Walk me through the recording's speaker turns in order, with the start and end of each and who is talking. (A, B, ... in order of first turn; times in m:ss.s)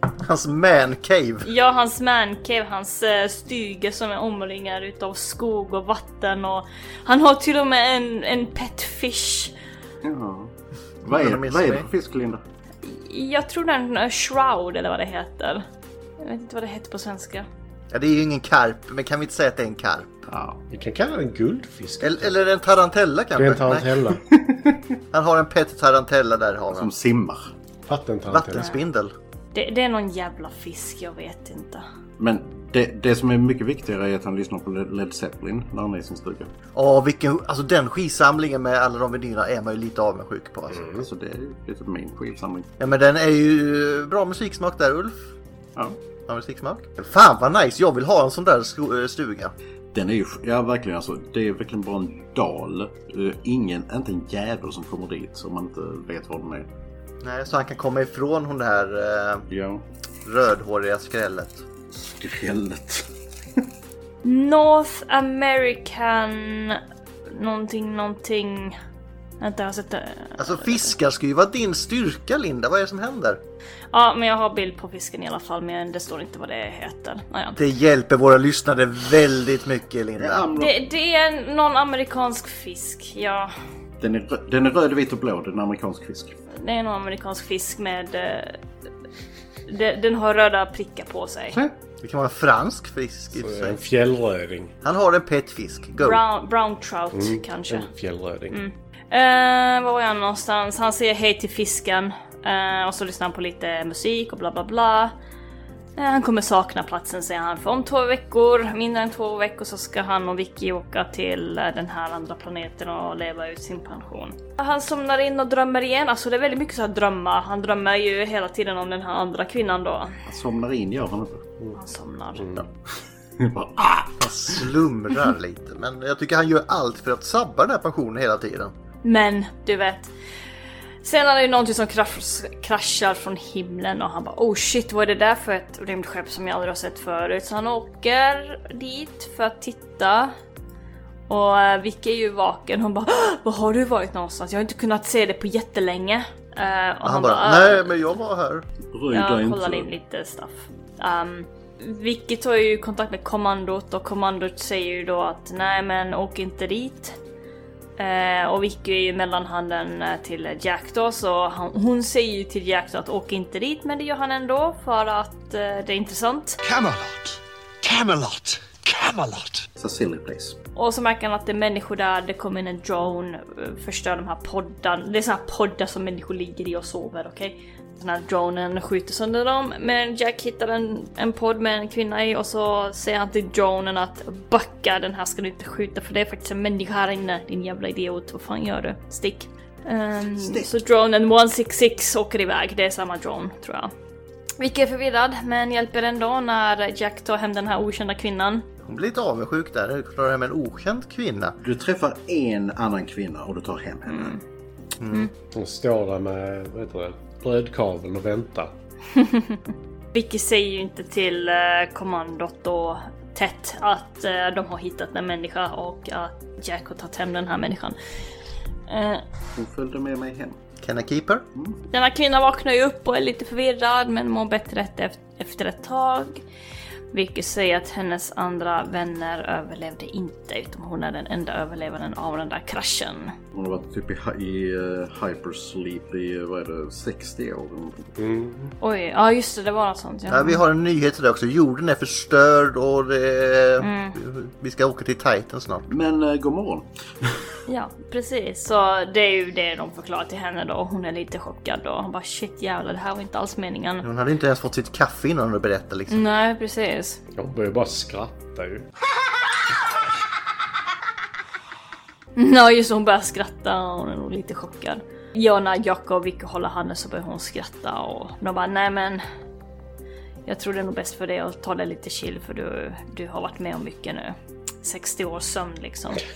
0:00.2-0:01.5 A
0:01.4-0:09.5 B
0:10.0-0:10.5 C
0:11.0-0:11.9 A
0:11.1-0:12.4 C
0:12.8-0:15.6 B
0:16.2-0:17.5 B
0:17.9-0:20.1 A
0:20.3-0:20.6 C
0:20.7-0:22.4 D
0:22.0-0:23.9 A
0:23.3-0:24.2 D
0:24.3-0:24.8 C
0:25.1-0:26.9 A
0:26.7-0:27.5 C
0:27.9-0:28.7 D
0:28.3-0:29.1 A
0:28.6-0:28.8 B
0:29.5-0:31.8 B
0:32.2-0:36.5 C
0:36.7-0:40.9 A
0:40.7-0:41.0 D
0:40.9-0:42.7 C
0:42.8-0:45.2 A
0:46.3-0:49.5 A
0:49.9-0:56.7 C
0:57.2-0:59.5 A
0:59.5-0:59.8 C
1:00.2-1:01.6 A
1:01.9-1:03.0 C
1:04.2-1:08.8 B
1:09.4-1:10.9 B
1:10.4-1:13.4 A
1:13.9-1:17.6 B
1:17.6-1:20.4 A
1:20.2-1:20.8 C
1:20.5-1:23.5 B
1:24.0-1:26.4 C
1:26.5-1:28.6 B
1:29.7-1:31.6 B
1:32.0-1:33.8 A
1:33.3-1:34.7 D
1:34.8-1:36.2 A
1:36.0-1:37.9 B
1:37.1-1:38.6 D
1:38.5-1:45.1 B
1:46.0-2:00.2 B
2:00.3-2:01.5 C
2:01.7-2:02.4 B
2:02.4-2:02.6 D
2:03.4-2:04.6 C
2:04.2-2:08.7 A
2:09.0-2:10.1 B
2:11.0-2:20.3 B
2:21.3-2:28.0 B
2:27.0-2:28.6 A
2:28.9-2:29.9 C
2:29.1-2:37.2 B
2:38.0-2:46.6 B
2:46.6-2:49.6 E
2:49.8-2:50.6 C
2:50.8-3:13.9 B
3:10.4-3:10.7 C
3:14.6-3:18.6 B
3:18.8-3:21.6 A
3:21.6-3:24.3 C
3:24.1-3:24.4 B
3:25.0-3:25.3 A
3:25.5-3:28.7 D
3:29.2-3:29.6 B
3:30.1-3:38.0 B
3:38.9-3:39.2 B
3:39.6-3:40.6 C
3:40.8-3:41.4 A
3:41.9-3:46.4 B
3:47.1-3:53.3 B
3:53.5-3:58.1 C
3:58.2-3:58.7 D
3:58.8-4:00.6 B
4:00.3-4:05.8 A
4:03.8-4:04.2 B
4:05.9-4:07.4 C
4:07.7-4:14.0 B
4:14.0-4:16.2 A
4:16.1-4:17.2 B
4:17.3-4:18.8 D
4:22.4-4:29.2 B
4:30.4-4:36.2 B